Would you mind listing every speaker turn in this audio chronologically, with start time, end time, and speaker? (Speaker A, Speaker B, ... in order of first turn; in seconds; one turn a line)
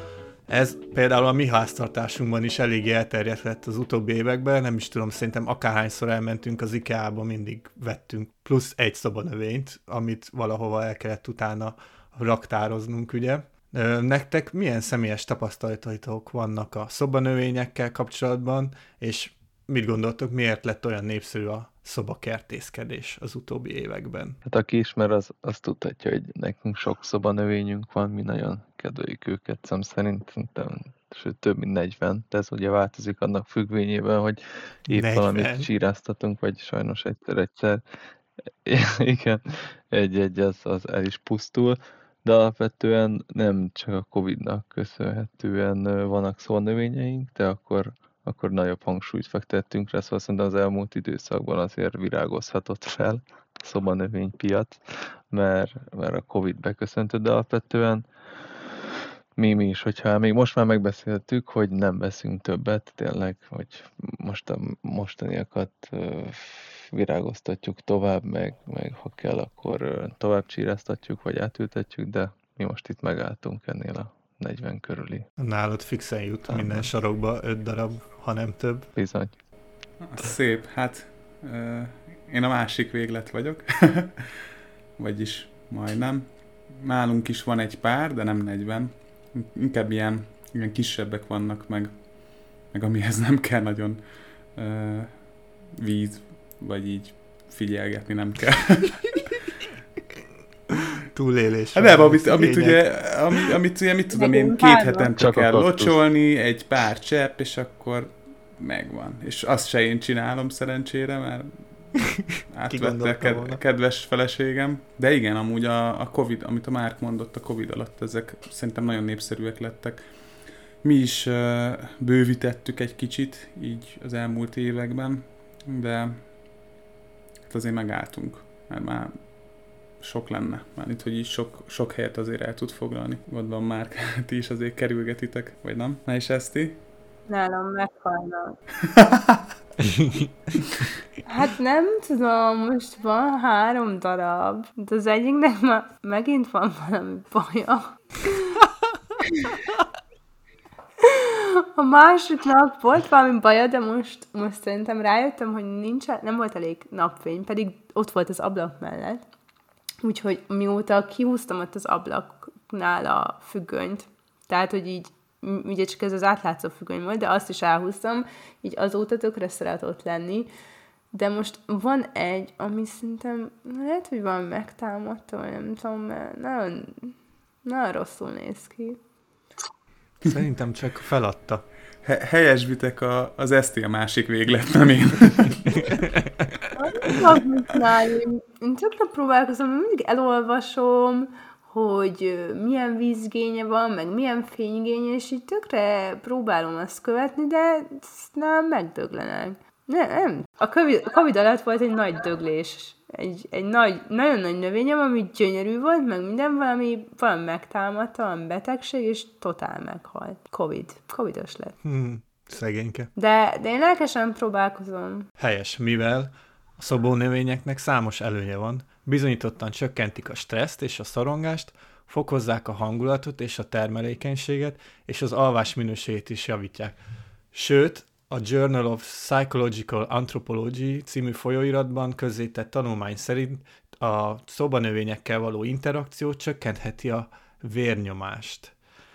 Speaker A: 0.5-24.4
Speaker B: 24.5-37.8
Speaker A: 34.9-35.7
Speaker B: 38.6-58.0
Speaker B: 59.4-75.2
Speaker A: 75.4-78.9
Speaker B: 76.5-76.9
Speaker B: 79.0-79.3
Speaker C: 80.0-84.5
Speaker C: 85.0-92.1
Speaker C: 92.6-99.5
Speaker A: 101.0-102.8
Speaker C: 101.8-120.1
Speaker D: 104.1-105.1
Speaker B: 105.2-106.0
Speaker A: 112.7-113.6
Speaker C: 120.8-126.3
Speaker C: 127.5-129.1
Speaker C: 130.0-136.8
Speaker D: 137.3-138.6
Speaker C: 138.8-139.4
Speaker A: 139.8-140.5
Speaker D: 141.2-148.7
Speaker D: 149.3-149.6
Speaker D: 151.0-159.2
Speaker D: 160.0-170.5
Speaker D: 171.1-179.0
Speaker A: 180.2-181.7
Speaker C: 182.0-185.9
Speaker A: 185.9-186.7
Speaker D: 186.8-211.8
Speaker A: 211.8-213.1
Speaker D: 213.2-215.3
Speaker A: 215.4-226.9
Speaker A: 227.5-238.8